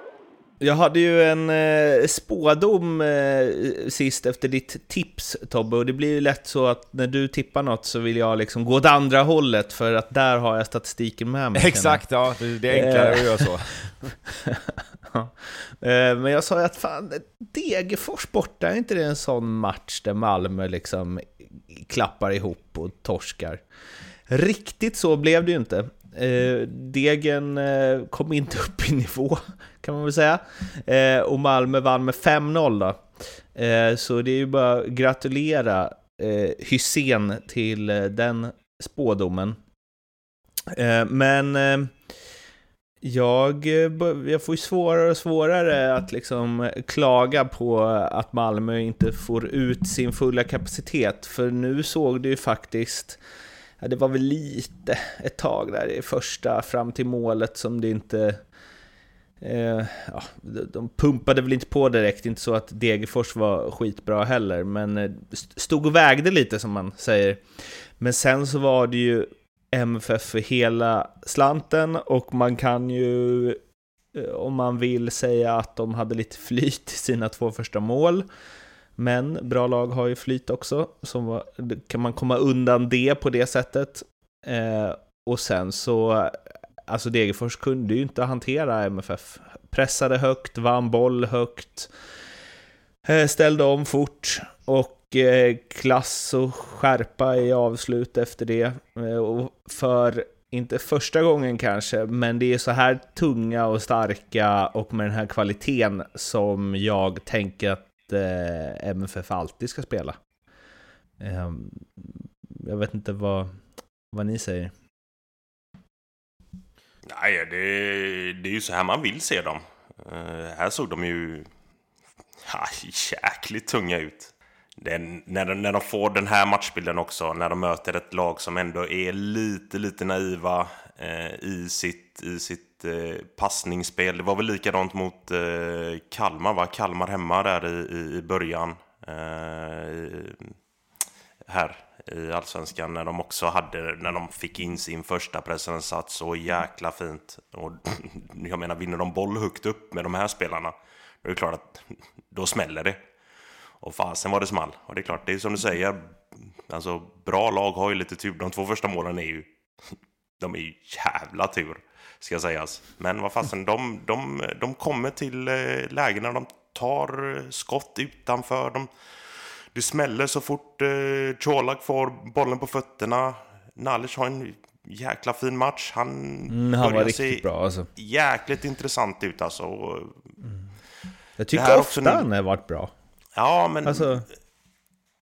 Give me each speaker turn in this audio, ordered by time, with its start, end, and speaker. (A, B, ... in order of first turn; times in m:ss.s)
0:00.6-0:12.0 A
0:11.5-0:14.1 B
0:12.7-0:13.5 A
0:14.3-0:23.6 A
0:24.3-0:39.6 A
0:40.7-0:41.9 A
0:43.0-0:53.2 A
0:53.8-0:58.4 A
0:59.4-1:13.6 A
1:14.1-1:18.3 A
1:19.0-1:31.9 A
1:33.0-1:50.2 A
1:51.2-1:53.5 A
1:54.1-1:54.7 A
1:57.0-2:01.5 C
2:02.4-2:20.5 C
2:21.5-2:33.0 C
2:33.8-2:57.4 C
2:56.5-2:57.9 A
2:58.0-3:00.2 C
3:01.4-3:02.9 A
3:01.5-3:02.2 C
3:03.4-3:04.2 C
3:03.8-3:04.2 A